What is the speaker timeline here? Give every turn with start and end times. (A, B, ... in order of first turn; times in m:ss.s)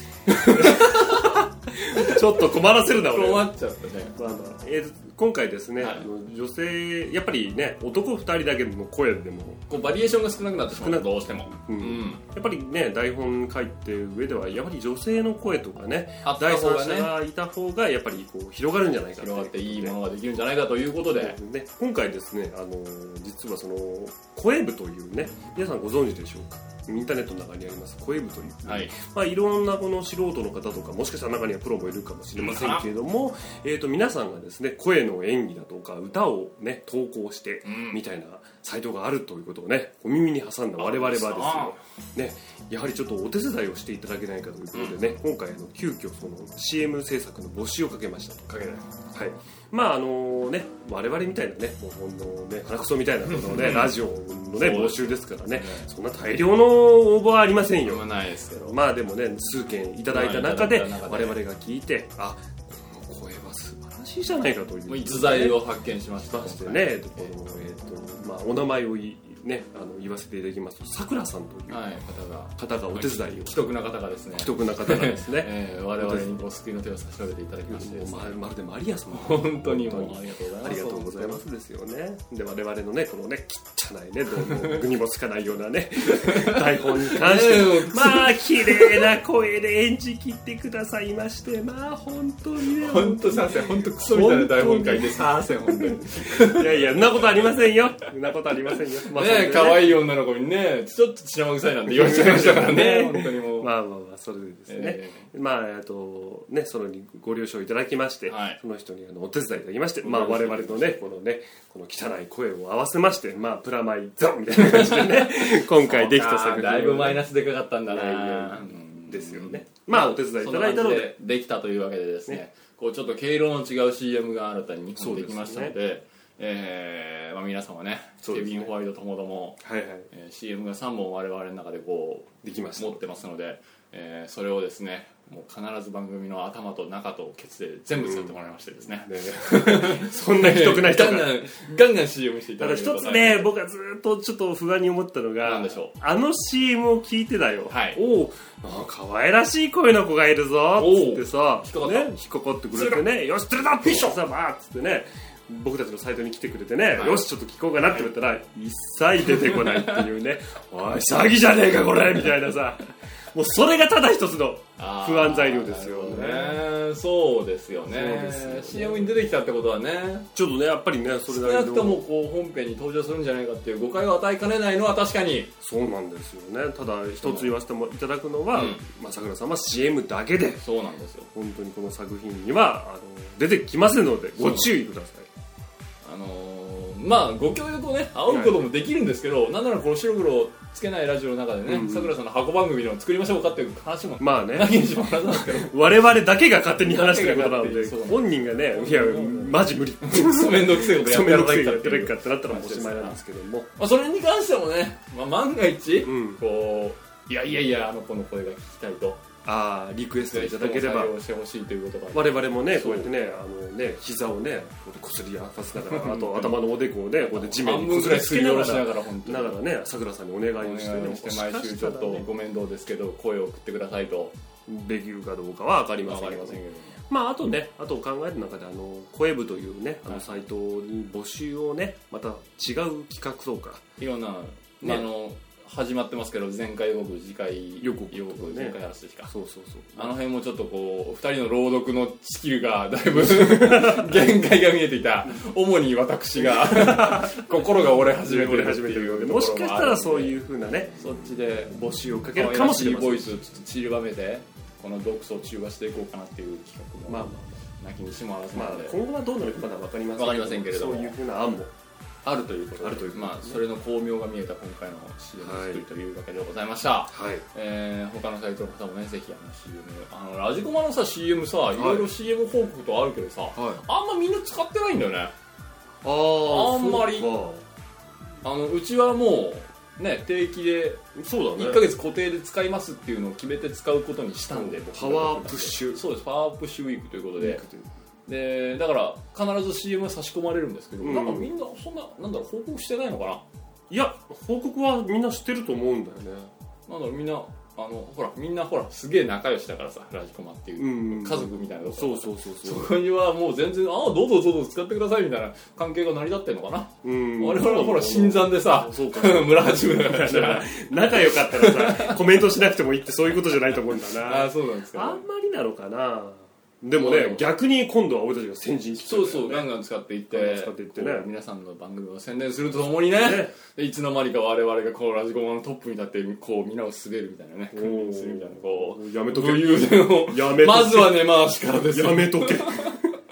0:00.3-0:01.4 A
0:00.5-0:03.5 B
0:02.9-0:04.2 A
0:04.2-0:09.6 B
0:05.8-0:06.1 A
0:09.7-0:12.2 A
0:10.7-0:20.0 B
0:16.2-0:17.1 A
0:19.2-0:21.4 A
0:21.1-0:48.5 B
0:28.6-0:28.9 A
0:32.4-0:32.8 A
0:37.6-0:38.0 A
0:40.8-0:41.8 A
0:44.7-0:45.2 A
0:48.5-0:48.8 A
0:49.1-1:05.6 B
0:53.3-0:53.9 A
0:54.5-0:55.9 A
0:57.8-0:58.8 A
1:00.1-1:01.4 A
1:04.9-1:07.3 A
1:06.2-1:11.8 B
1:11.7-1:18.4 A
1:12.6-1:13.7 B
1:14.3-1:16.4 B
1:17.6-1:40.0 B
1:19.1-1:21.4 A
1:26.1-1:29.1 A
1:32.6-1:37.7 A
1:39.1-1:43.7 A
1:41.9-1:57.3 B
1:44.7-1:45.3 A
1:48.3-1:48.6 A
1:50.0-1:51.2 A
1:54.5-2:23.6 A
1:57.9-2:01.1 B
2:05.0-2:05.8 B
2:08.2-2:08.7 B
2:09.6-2:10.1 B
2:12.4-2:13.0 B
2:18.0-2:21.5 B
2:22.6-2:46.6 B
2:25.4-2:25.9 A
2:27.7-2:28.0 A
2:30.8-2:32.2 A
2:32.7-2:33.1 A
2:33.8-2:34.2 A
2:36.9-2:37.2 A
2:39.4-2:40.0 A
2:44.8-2:50.3 A
2:47.8-2:49.2 B
2:50.3-2:52.0 B
2:51.3-2:55.5 A
2:55.6-3:00.6 B
2:57.2-2:57.5 A
2:58.5-2:58.8 A
3:00.6-3:01.3 A
3:01.3-3:05.3 B
3:04.4-3:04.7 A
3:06.0-3:15.7 A
3:08.3-3:08.6 B
3:11.6-3:12.2 B
3:14.2-3:23.7 B
3:16.8-3:23.2 A
3:23.8-3:29.2 A
3:26.0-3:26.4 B
3:29.4-3:31.1 B
3:30.3-3:33.1 A
3:32.1-3:42.3 B
3:35.8-3:36.6 A
3:37.3-3:39.6 A
3:40.6-3:44.4 A
3:44.7-3:53.8 B
3:46.0-3:47.0 A
3:50.1-3:50.4 A
3:54.0-3:59.3 A
3:54.8-3:55.1 B
3:57.8-4:00.1 B
3:59.9-4:19.0 A
4:03.1-4:04.3 B
4:06.4-4:07.6 B
4:08.2-4:13.4 B
4:17.0-4:17.6 B
4:18.5-4:21.7 B
4:20.1-4:21.2 A
4:22.2-4:35.3 A
4:22.7-4:23.6 B
4:25.4-4:25.8 B
4:27.1-4:27.4 B
4:31.8-4:32.1 B
4:33.5-4:33.8 B
4:36.0-4:37.6 B
4:36.4-4:37.3 A
4:38.4-4:41.0 A
4:41.1-4:41.9 B
4:41.5-4:47.6 A
4:44.5-4:46.0 B
4:47.3-4:47.9 B
4:48.3-4:53.4 A
4:51.0-4:51.5 B
4:53.9-4:56.5 B
4:56.9-5:12.4 A
5:00.8-5:02.9 B
5:07.0-5:19.7 B
5:14.2-5:15.2 A
5:16.9-5:17.4 A
5:19.0-5:32.9 A
5:20.3-5:21.3 B
5:23.1-5:23.5 B
5:27.7-5:33.0 B